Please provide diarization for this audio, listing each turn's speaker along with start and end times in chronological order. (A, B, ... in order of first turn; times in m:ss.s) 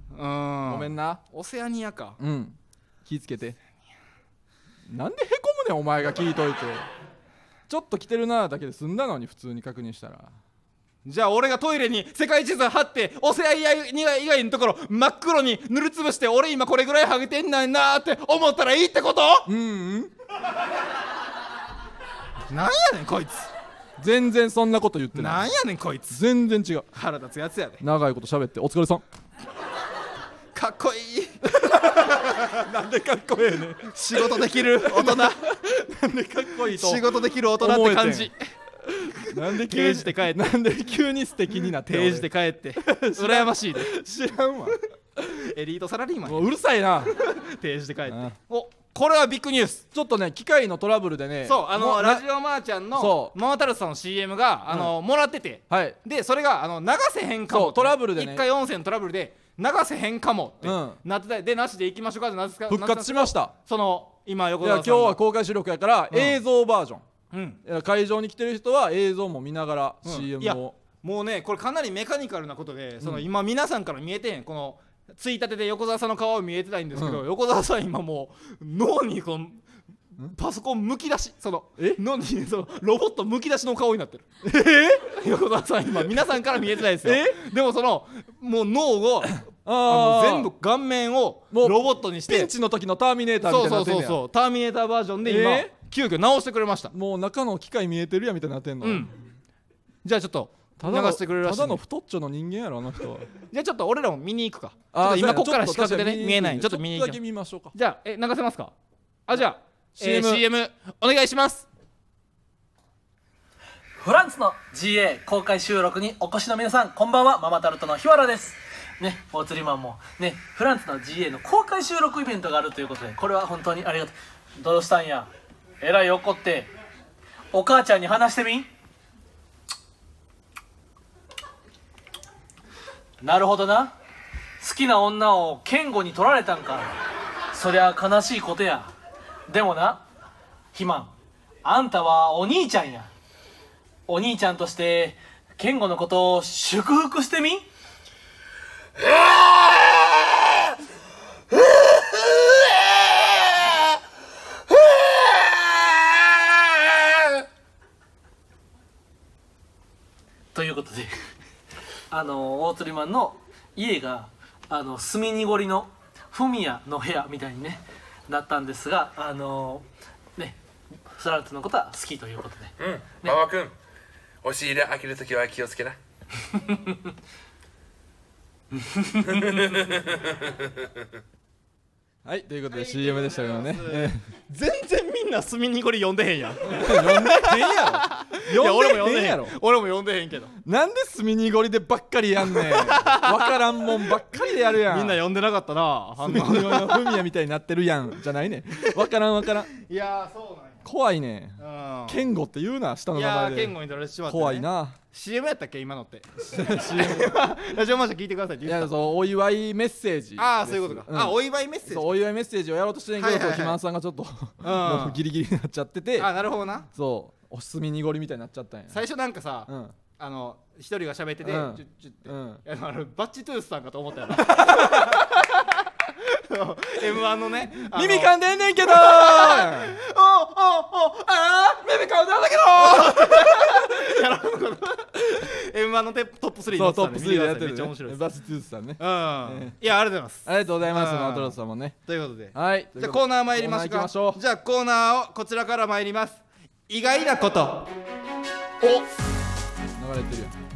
0:00.1-0:02.2 A
0:00.7-0:01.2 B
0:02.2-0:03.6 B
0:04.9-0:06.9 B
0:07.7-0:10.3 B
0:11.0-0:19.5 A
0:19.4-0:20.1 B
0:22.5-0:23.5 A
0:24.0-0:25.5 B
0:25.1-0:26.2 A
0:26.1-0:26.9 B
0:26.9-0:27.8 A
0:27.8-0:29.0 B
0:30.6-0:32.7 A
0:31.6-0:38.3 B
0:33.6-0:35.5 A
0:36.6-0:38.4 A
0:38.9-0:45.3 B
0:39.2-0:40.4 A
0:41.8-0:44.0 A
0:45.3-0:46.5 A
0:46.2-0:47.2 B
0:47.1-0:49.9 A
0:48.1-0:48.4 B
0:49.9-0:52.2 B
0:51.4-1:05.2 A
0:52.9-0:53.4 B
0:55.7-0:56.0 B
0:57.5-0:58.4 B
1:00.6-1:01.0 B
1:02.7-1:03.5 B
1:04.6-1:07.0 B
1:06.1-1:06.4 A
1:07.3-1:07.6 A
1:07.6-1:10.8 B
1:10.0-1:19.6 A
1:16.9-1:17.2 B
1:20.2-1:24.2 A
1:24.4-1:25.1 B
1:25.1-1:32.5 A
1:27.0-1:27.4 B
1:29.5-1:30.5 B
1:31.5-1:34.2 B
1:33.4-1:36.9 A
1:35.2-1:35.7 B
1:36.9-1:39.1 B
1:38.8-1:39.1 A
1:40.0-1:41.8 A
1:40.8-1:43.3 B
1:43.5-1:47.2 A
1:44.9-1:47.7 B
1:47.7-1:48.7 A
1:49.3-1:51.7 A
1:50.0-1:50.4 B
1:54.0-2:06.7 C
2:07.5-2:08.7 C
2:13.2-2:13.9 C
2:14.6-2:17.0 C
2:17.5-2:18.9 C
2:19.5-2:20.0 C
2:20.7-2:21.1 C
2:21.6-2:23.1 C
2:24.1-2:27.7 C
2:40.5-2:41.1 C
2:42.1-2:49.8 C
2:50.4-2:53.4 C
2:52.8-2:53.7 D
2:54.4-2:56.0 D
2:59.5-3:00.9 D
3:02.2-3:04.2 B
3:02.7-3:10.6 A
3:06.6-3:09.6 B
3:10.6-3:15.2 B
3:12.4-3:14.2 A
3:14.7-3:17.2 A
3:16.2-3:19.7 B
3:19.7-3:20.8 A
3:20.8-3:25.0 B
3:21.6-3:22.2 A
3:23.1-3:29.0 A
3:26.5-3:27.4 B
3:28.6-3:36.3 B
3:30.4-3:32.2 A
3:33.2-3:33.8 A
3:34.6-3:35.2 A
3:36.2-3:36.9 A
3:36.9-3:39.0 B
3:38.9-3:58.2 A
3:39.7-3:40.0 B
3:41.4-3:42.6 B
3:44.4-3:45.3 B
3:47.8-3:50.0 B
3:52.8-3:53.9 B
3:56.7-3:59.8 B
3:59.0-4:07.9 A
4:00.4-4:02.0 B
4:02.5-4:04.4 B
4:10.0-4:10.6 B